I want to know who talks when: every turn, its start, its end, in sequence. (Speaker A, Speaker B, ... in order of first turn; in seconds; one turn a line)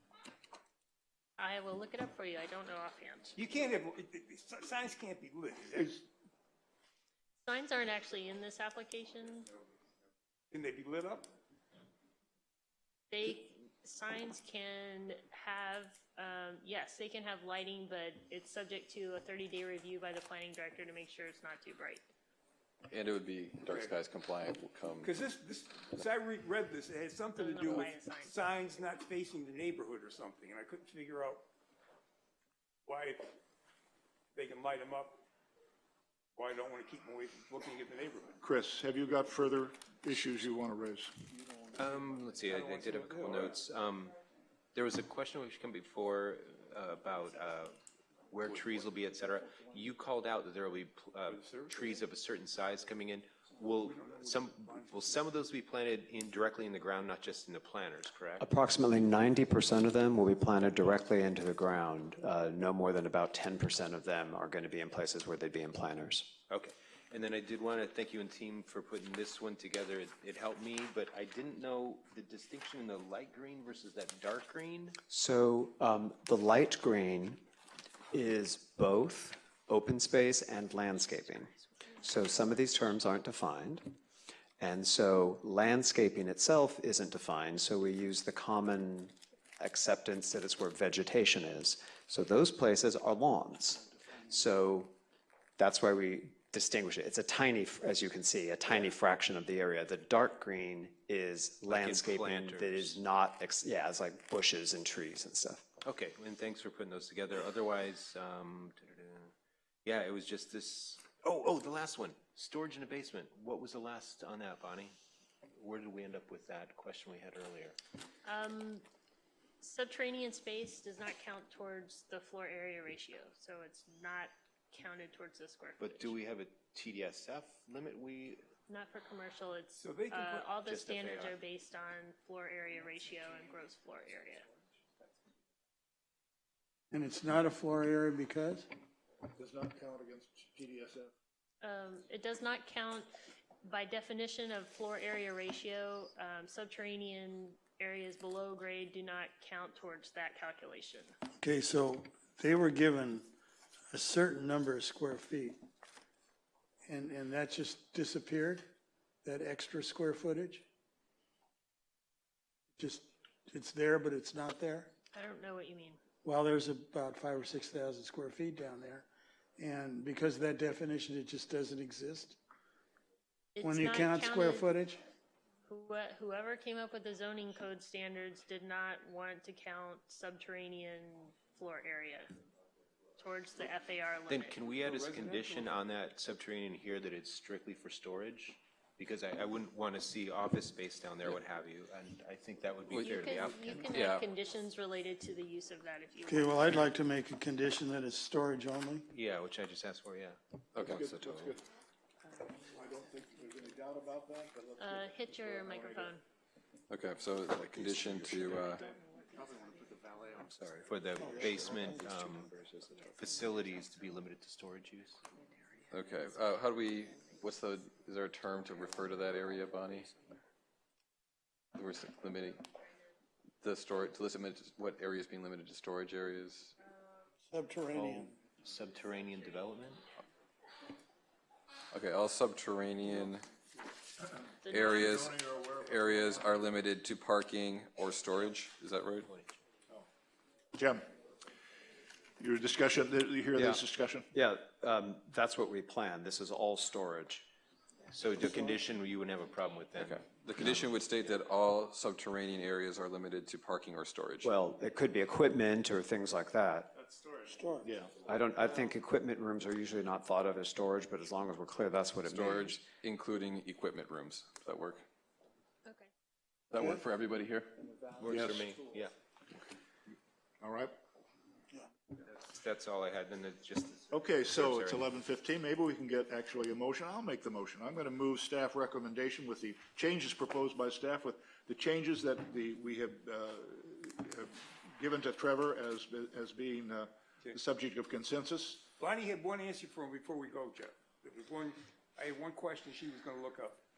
Speaker A: 1.4-3.4
Speaker B: 3.4-5.9
Speaker C: 5.7-6.0
Speaker A: 7.4-9.5
Speaker B: 10.5-11.3
Speaker A: 13.1-22.0
Speaker D: 22.9-25.1
Speaker B: 23.7-24.0
Speaker B: 25.0-31.4
Speaker A: 27.3-28.3
Speaker B: 32.9-33.4
Speaker B: 34.3-35.2
Speaker B: 36.3-38.4
Speaker C: 38.4-41.1
Speaker E: 41.7-44.1
Speaker B: 42.5-43.6
Speaker E: 44.7-58.5
Speaker B: 51.2-51.9
Speaker B: 53.8-55.3
Speaker F: 58.4-66.4
Speaker E: 66.5-75.0
Speaker F: 75.1-77.4
Speaker F: 78.1-84.0
Speaker F: 84.6-94.9
Speaker F: 95.6-105.6
Speaker E: 101.7-103.0
Speaker E: 105.8-109.3
Speaker E: 109.8-114.9
Speaker E: 115.5-117.8
Speaker A: 118.2-118.8
Speaker A: 119.6-126.1
Speaker E: 125.8-128.4
Speaker A: 128.7-134.5
Speaker B: 129.8-130.5
Speaker E: 130.7-131.4
Speaker G: 136.9-138.7
Speaker C: 139.3-141.1
Speaker A: 141.6-143.1
Speaker A: 143.6-151.1
Speaker G: 151.4-153.3
Speaker G: 153.9-155.6
Speaker G: 156.8-158.7
Speaker G: 159.2-160.6
Speaker G: 162.8-164.9
Speaker A: 165.1-166.0
Speaker G: 166.2-169.1
Speaker G: 169.6-172.4
Speaker A: 173.5-174.7
Speaker G: 173.6-175.0
Speaker A: 175.7-182.3
Speaker A: 183.2-184.6
Speaker E: 184.3-193.8
Speaker B: 184.8-185.7
Speaker D: 192.9-194.2
Speaker A: 193.0-196.9
Speaker G: 196.3-199.1
Speaker E: 199.1-201.5
Speaker D: 200.7-201.5
Speaker C: 200.8-201.6
Speaker A: 202.3-202.8
Speaker C: 202.7-206.1
Speaker A: 204.8-206.2
Speaker D: 206.9-208.8
Speaker E: 207.7-208.6
Speaker A: 208.7-210.1
Speaker E: 210.7-215.2
Speaker G: 211.2-212.3
Speaker A: 212.9-213.7
Speaker D: 215.9-220.2
Speaker D: 221.7-222.6
Speaker D: 223.6-226.7
Speaker A: 226.9-227.1
Speaker G: 227.4-228.4
Speaker E: 227.9-230.0
Speaker D: 231.9-233.5
Speaker C: 234.2-236.5
Speaker A: 234.6-235.1
Speaker D: 234.7-239.3
Speaker E: 239.2-239.5
Speaker C: 240.7-241.0
Speaker C: 242.4-244.3
Speaker F: 243.5-247.4
Speaker E: 248.1-250.8
Speaker G: 248.4-248.7
Speaker D: 249.9-254.5
Speaker F: 254.4-256.9
Speaker G: 257.5-257.9
Speaker C: 257.8-258.1
Speaker F: 258.2-262.8
Speaker D: 262.2-265.0
Speaker D: 266.7-268.7
Speaker E: 268.2-269.1
Speaker C: 268.3-268.7
Speaker C: 270.6-270.9
Speaker E: 272.2-275.2
Speaker C: 274.1-288.9
Speaker B: 289.0-293.8